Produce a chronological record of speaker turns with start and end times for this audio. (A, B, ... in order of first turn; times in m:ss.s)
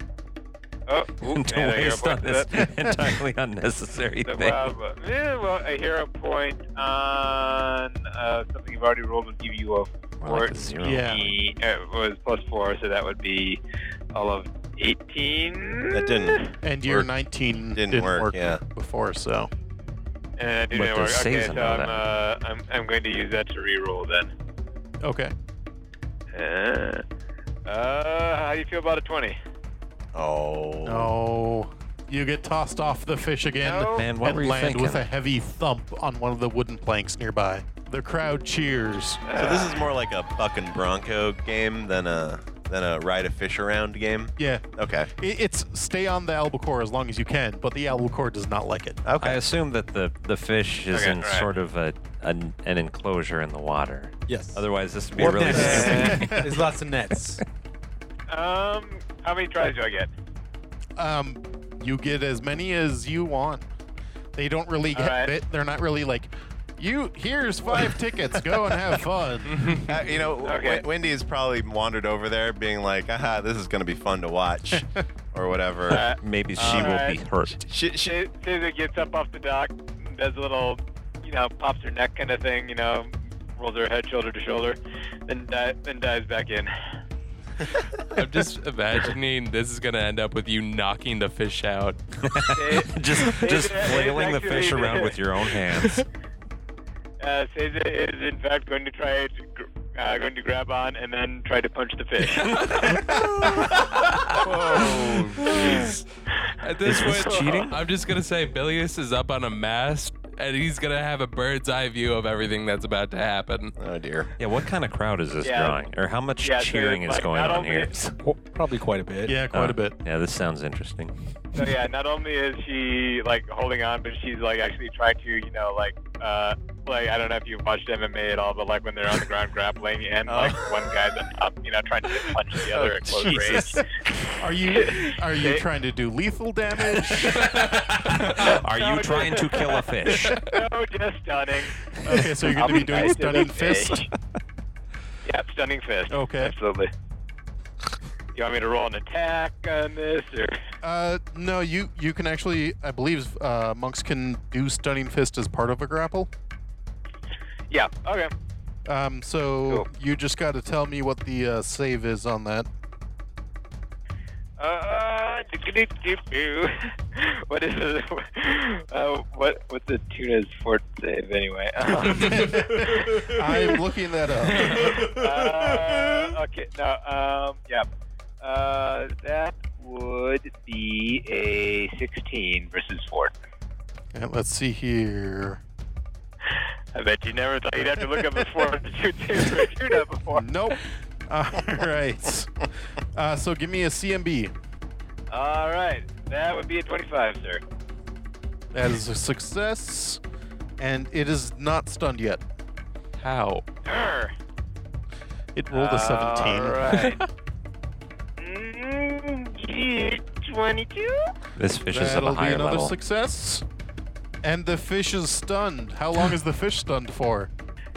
0:00.9-0:02.6 A
0:01.2-0:04.7 B
0:04.2-0:13.6 A
0:10.2-0:11.3 B
0:10.8-0:11.2 C
0:14.1-0:16.5 A
0:15.9-0:17.1 D
0:16.6-0:19.5 C
0:17.7-0:18.6 D
0:20.4-0:24.3 A
0:20.7-0:22.0 B
0:25.0-0:25.3 C
0:26.3-0:27.0 A
0:27.7-0:29.4 A
0:30.2-0:31.1 D
0:30.9-0:39.2 C
0:33.6-0:34.1 A
0:34.0-0:35.1 B
0:39.3-0:39.8 A
0:39.4-0:45.1 D
0:44.4-0:49.0 C
0:49.0-0:49.4 D
0:49.2-0:56.4 B
0:50.9-0:51.5 A
0:54.3-0:54.6 E
0:55.2-0:57.4 E
0:55.4-0:56.6 C
0:55.7-0:56.1 A
0:58.3-1:00.1 A
1:01.0-1:03.6 C
1:04.4-1:09.9 C
1:04.9-1:05.3 A
1:09.5-1:09.8 F
1:09.7-1:17.0 D
1:10.4-1:10.8 A
1:14.7-1:15.0 C
1:15.9-1:17.2 A
1:15.9-1:17.7 B
1:17.6-1:18.2 D
1:18.0-1:26.7 A
1:28.1-1:32.0 F
1:32.3-1:36.1 B
1:32.5-1:35.2 A
1:35.8-1:36.0 F
1:37.2-1:42.9 A
1:42.5-1:43.7 B
1:44.4-1:45.9 D
1:44.4-1:45.0 A
1:44.5-1:46.0 F
1:45.4-1:45.9 B
1:46.6-1:53.8 F
1:46.8-1:47.8 B
1:47.0-1:47.5 A
1:53.8-1:54.3 D
1:54.4-1:58.1 B
1:55.4-1:55.8 A
1:56.4-1:57.9 A
1:58.2-1:59.4 E
1:59.3-2:00.0 C
1:59.5-2:01.1 B
2:01.6-2:13.9 A
2:10.3-2:11.0 D
2:12.7-2:13.8 D
2:13.3-2:13.8 C
2:14.4-2:18.4 C
2:14.6-2:15.6 A
2:17.4-2:18.3 F
2:18.1-2:20.5 B
2:18.4-2:24.1 A
2:21.9-2:24.0 C
2:25.2-2:26.9 A
2:26.1-2:26.5 C
2:28.4-2:30.6 A
2:30.8-2:36.3 C
2:37.7-2:38.3 A
2:38.9-2:42.7 C
2:44.6-2:53.8 A
2:52.1-2:55.6 C
2:54.6-2:57.9 A
2:58.4-3:03.3 A
3:04.1-3:05.6 C
3:06.9-3:10.5 A
3:10.3-3:14.5 C
3:15.3-3:17.6 A
3:18.7-3:20.2 C
3:20.8-3:22.4 C
3:23.2-3:23.6 F
3:23.9-3:24.3 A
3:25.6-3:26.9 C
3:25.7-3:27.2 A
3:27.0-3:27.2 F
3:28.4-3:31.3 A
3:31.6-3:33.0 B
3:31.9-3:33.6 C
3:34.4-3:37.5 C